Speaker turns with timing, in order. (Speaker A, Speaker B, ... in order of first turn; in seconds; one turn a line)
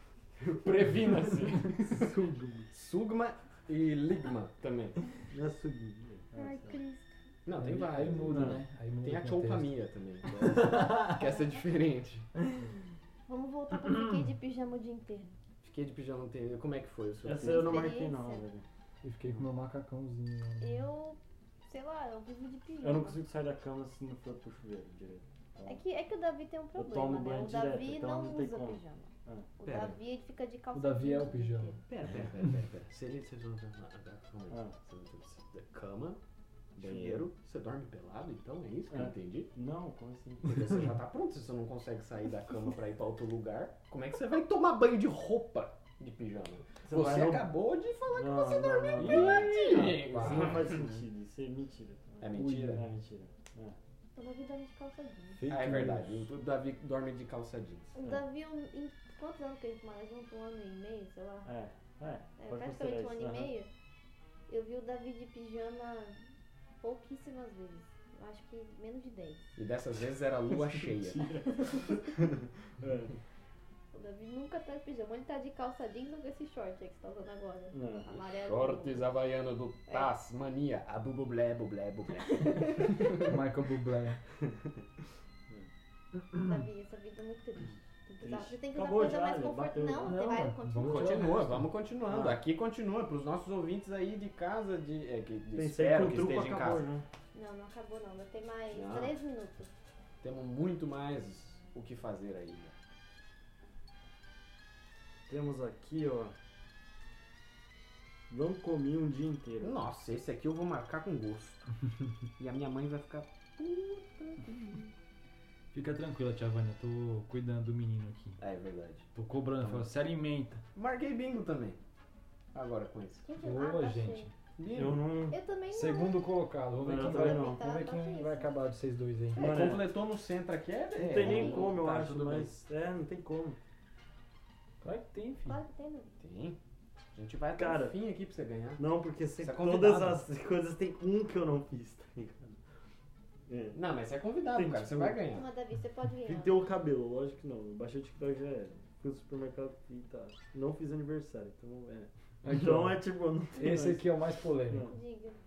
Speaker A: 0.4-2.1
Speaker B: 1.8-2.7
Speaker A: 2.7-5.0
Speaker B: 5.3-6.8
Speaker C: 6.3-7.1
Speaker A: 7.4-12.3
Speaker D: 7.5-9.7
Speaker B: 8.2-8.6
Speaker C: 13.3-15.3
Speaker A: 15.6-17.9
Speaker B: 17.2-18.6
Speaker C: 17.4-18.4
Speaker D: 19.0-20.9
Speaker C: 20.6-23.2
Speaker B: 22.8-25.8
Speaker C: 25.6-31.8
Speaker B: 26.8-29.5
Speaker A: 29.6-30.0
Speaker D: 30.7-31.8
Speaker A: 31.9-36.2
Speaker B: 34.5-34.7
Speaker A: 36.7-39.5
Speaker B: 36.8-37.2
Speaker B: 38.9-40.9
Speaker A: 40.4-50.8
Speaker B: 46.8-47.5
Speaker B: 48.1-53.8
Speaker C: 48.4-49.8
Speaker D: 49.1-50.6
Speaker A: 52.2-52.8
Speaker D: 52.3-52.8
Speaker C: 54.1-55.5
Speaker D: 55.4-56.3
Speaker A: 55.5-57.9
Speaker C: 57.9-61.5
Speaker B: 61.4-63.5
Speaker C: 62.4-63.7
Speaker C: 64.5-66.2
Speaker C: 66.8-69.5
Speaker A: 69.5-71.3
Speaker B: 70.5-73.1
Speaker C: 73.9-79.1
Speaker B: 77.7-78.1
Speaker A: 78.3-83.3
Speaker C: 82.4-83.3
Speaker D: 83.2-84.2
Speaker C: 86.3-91.3
Speaker B: 88.2-90.4
Speaker D: 90.0-91.7
Speaker A: 90.8-96.8
Speaker B: 92.0-92.4
Speaker B: 95.5-97.0
Speaker C: 97.3-99.7
Speaker A: 98.7-99.1
Speaker A: 100.2-102.7
Speaker B: 105.3-106.3
Speaker B: 108.3-109.8
Speaker A: 109.6-111.7
Speaker A: 112.4-114.9
Speaker D: 115.7-118.4
Speaker A: 118.4-119.1
Speaker D: 119.1-120.6
Speaker A: 119.6-119.8
Speaker A: 120.7-121.8
Speaker A: 122.5-123.2
Speaker C: 123.2-124.3
Speaker D: 123.4-124.3
Speaker A: 124.6-125.1
Speaker B: 124.7-125.4
Speaker C: 125.3-126.2
Speaker D: 125.7-129.5
Speaker B: 126.8-127.6
Speaker C: 126.9-128.5
Speaker A: 129.3-132.6
Speaker B: 129.4-129.9
Speaker B: 130.9-133.6
Speaker C: 131.1-131.8
Speaker D: 134.8-135.6
Speaker C: 135.4-136.2
Speaker A: 136.2-136.6
Speaker A: 137.1-138.8
Speaker B: 137.5-138.0
Speaker B: 138.8-142.6
Speaker A: 139.4-140.2
Speaker B: 143.5-143.8
Speaker A: 143.7-145.5
Speaker B: 144.5-145.2
Speaker C: 145.3-146.6
Speaker B: 146.2-154.1
Speaker D: 152.4-153.0
Speaker D: 153.6-154.9
Speaker B: 154.7-154.9
Speaker C: 154.9-155.4